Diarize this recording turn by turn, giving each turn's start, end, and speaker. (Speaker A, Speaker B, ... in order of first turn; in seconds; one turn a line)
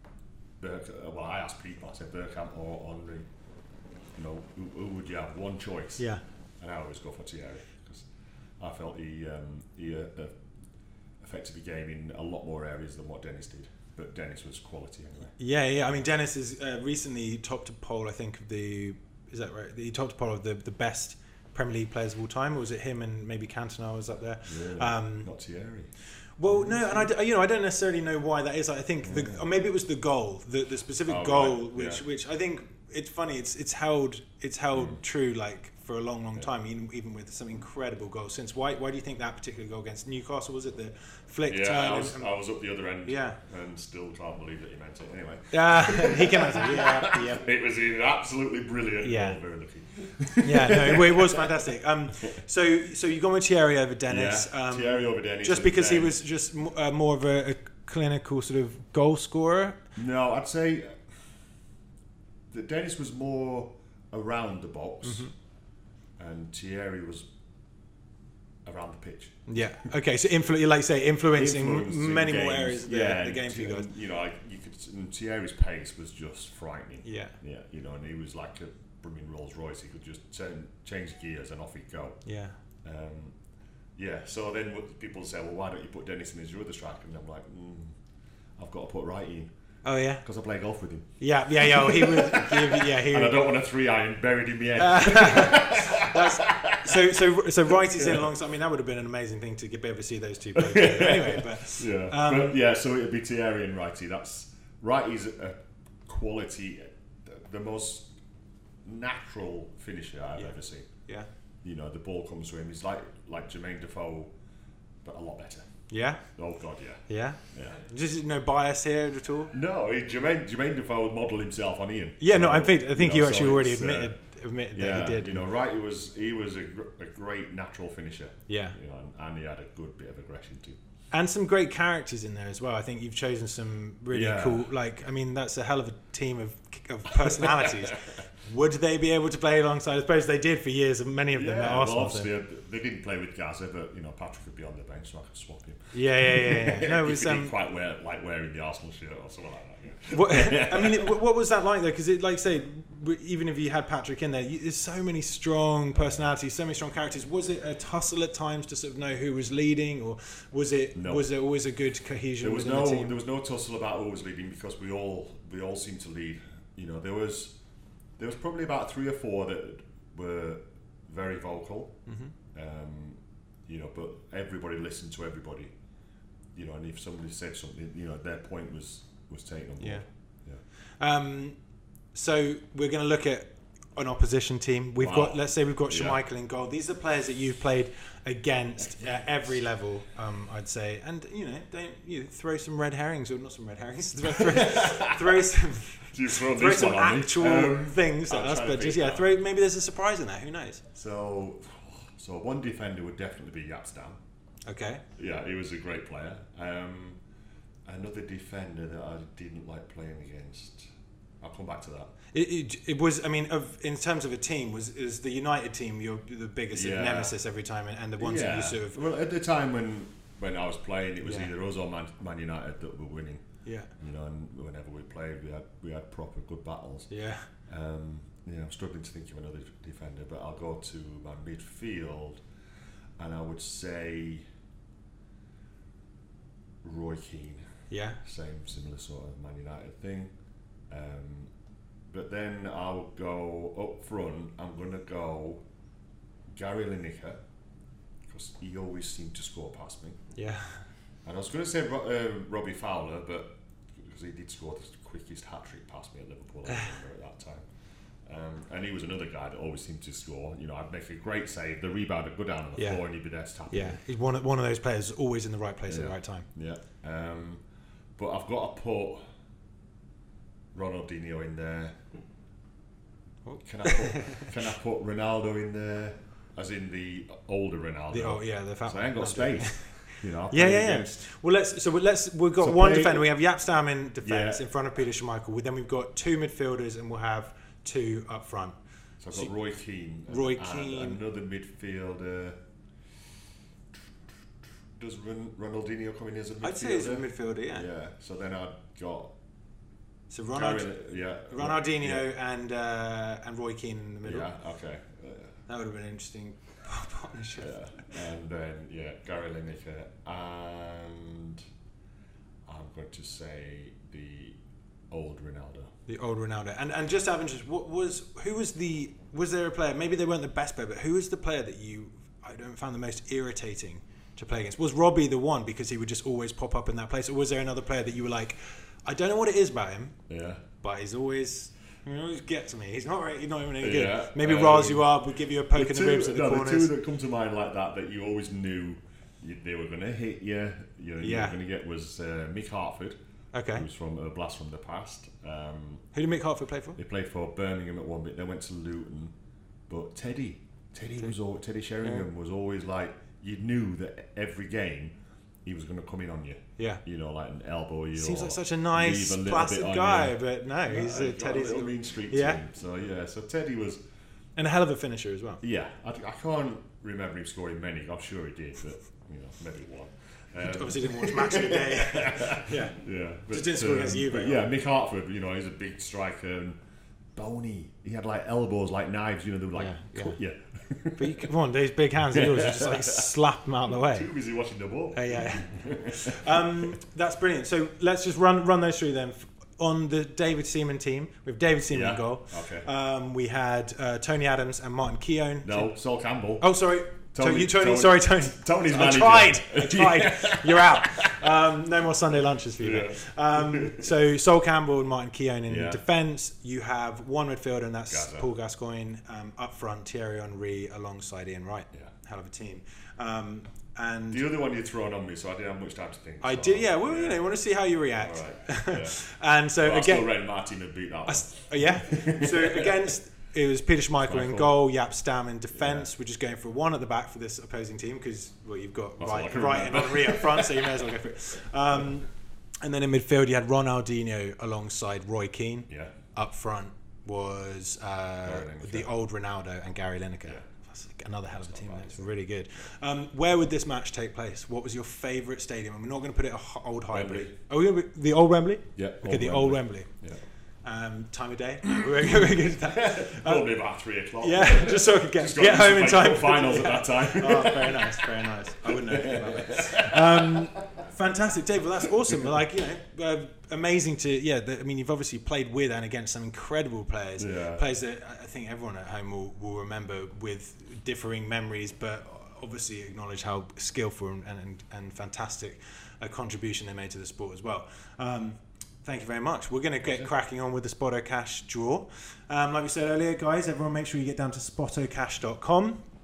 Speaker A: 0.6-3.2
Speaker A: 4.2-6.0
Speaker A: 6.6-8.1
Speaker A: 8.6-10.3
Speaker A: 11.2-15.3
Speaker B: 15.4-25.3
Speaker A: 24.4-25.9
Speaker B: 26.4-42.3
Speaker A: 26.5-27.1
Speaker A: 29.0-29.5
Speaker A: 31.1-32.0
Speaker A: 34.7-35.0
Speaker A: 41.5-51.5
Speaker B: 43.0-43.4
Speaker B: 45.5-47.5
Speaker B: 49.0-49.4
Speaker B: 50.4-59.8
Speaker A: 54.1-56.2
Speaker A: 60.0-61.0
Speaker A: 62.5-65.3
Speaker B: 65.0-65.3
Speaker A: 66.2-67.3
Speaker A: 68.6-69.5
Speaker B: 69.5-73.9
Speaker A: 71.3-82.2
Speaker B: 77.0-77.3
Speaker B: 82.2-82.6
Speaker A: 82.8-83.3
Speaker A: 84.0-88.0
Speaker A: 88.6-89.5
Speaker B: 89.8-90.2
Speaker A: 90.2-98.3
Speaker B: 91.2-93.4
Speaker B: 94.8-102.6
Speaker A: 100.5-108.1
Speaker A: 108.8-110.9
Speaker B: 110.3-111.3
Speaker A: 111.6-114.3
Speaker A: 115.0-115.6
Speaker B: 115.9-116.2
Speaker A: 116.3-117.8
Speaker B: 117.1-119.5
Speaker A: 119.5-124.1
Speaker B: 122.2-125.4
Speaker A: 124.7-130.8
Speaker B: 128.5-128.8
Speaker B: 131.1-142.3
Speaker A: 134.1-134.7
Speaker A: 137.4-137.7
Speaker A: 141.3-151.1
Speaker B: 145.9-147.6
Speaker B: 150.1-163.2
Speaker A: 155.9-156.3
Speaker A: 160.9-161.3
Speaker A: 162.4-167.6
Speaker A: 168.2-172.0
Speaker B: 172.1-172.3
Speaker A: 172.5-175.7
Speaker A: 176.5-180.6
Speaker B: 179.8-180.0
Speaker B: 181.0-181.6
Speaker B: 182.1-200.8
Speaker A: 185.0-186.2
Speaker A: 194.3-195.4
Speaker A: 196.1-199.3
Speaker A: 200.9-204.2
Speaker B: 204.7-205.0
Speaker A: 205.2-207.2
Speaker A: 207.9-210.9
Speaker A: 211.4-212.1
Speaker B: 212.3-219.0
Speaker A: 216.7-217.3
Speaker A: 218.2-223.4
Speaker B: 221.2-221.5
Speaker B: 223.6-223.9
Speaker A: 224.0-227.1
Speaker B: 227.1-227.5
Speaker A: 227.7-232.4
Speaker A: 233.2-234.4
Speaker A: 236.8-237.6
Speaker B: 237.9-238.2
Speaker A: 238.2-240.3
Speaker A: 240.9-241.5
Speaker A: 242.1-245.6
Speaker A: 246.5-247.4
Speaker A: 248.3-250.2
Speaker B: 250.3-250.8
Speaker A: 251.2-257.6
Speaker A: 258.2-264.0
Speaker B: 262.8-263.0
Speaker B: 263.7-266.5
Speaker A: 265.9-267.6
Speaker A: 268.1-269.2
Speaker A: 270.7-271.9
Speaker B: 273.4-274.5
Speaker A: 273.6-281.2
Speaker B: 278.1-288.8
Speaker A: 282.6-283.3
Speaker A: 284.2-284.6
Speaker A: 289.2-292.6
Speaker B: 290.3-291.2
Speaker A: 295.0-299.3
Speaker B: 296.6-297.9
Speaker B: 300.3-300.9
Speaker A: 300.5-302.2
Speaker B: 301.5-304.5
Speaker A: 304.2-305.6
Speaker B: 305.7-308.1
Speaker A: 307.6-311.6
Speaker A: 312.7-314.6
Speaker A: 315.1-315.9
Speaker B: 316.1-330.2
Speaker A: 330.3-330.6
Speaker B: 330.8-336.9
Speaker A: 333.8-343.2
Speaker B: 341.2-341.6
Speaker B: 343.5-343.9
Speaker A: 343.7-346.1
Speaker B: 346.1-347.0
Speaker A: 346.9-349.3
Speaker A: 349.9-364.0
Speaker B: 352.0-352.3
Speaker B: 356.8-357.0
Speaker B: 358.1-362.6
Speaker B: 364.6-365.6
Speaker A: 365.6-376.8
Speaker B: 370.6-373.0
Speaker B: 373.5-374.7
Speaker A: 377.3-381.5
Speaker B: 379.7-380.4
Speaker B: 381.2-384.3
Speaker A: 382.3-383.3
Speaker A: 384.1-386.9
Speaker B: 385.1-395.9
Speaker A: 391.9-392.9
Speaker A: 395.6-396.7
Speaker B: 396.6-414.4
Speaker A: 397.3-401.3
Speaker A: 402.8-404.1
Speaker A: 405.7-406.0
Speaker A: 408.1-408.5
Speaker A: 414.3-417.4
Speaker B: 416.4-420.3
Speaker A: 418.2-419.2
Speaker A: 419.8-422.9
Speaker B: 421.2-432.3
Speaker A: 424.2-424.8
Speaker A: 425.7-426.1
Speaker A: 429.2-430.8
Speaker B: 432.8-450.1
Speaker A: 435.9-436.1
Speaker A: 438.4-439.1
Speaker A: 441.6-442.3
Speaker A: 447.1-447.5
Speaker A: 448.9-450.4
Speaker B: 450.8-453.7
Speaker A: 452.8-458.3
Speaker B: 454.4-486.0
Speaker A: 458.9-460.7
Speaker A: 467.4-467.9
Speaker A: 480.0-480.3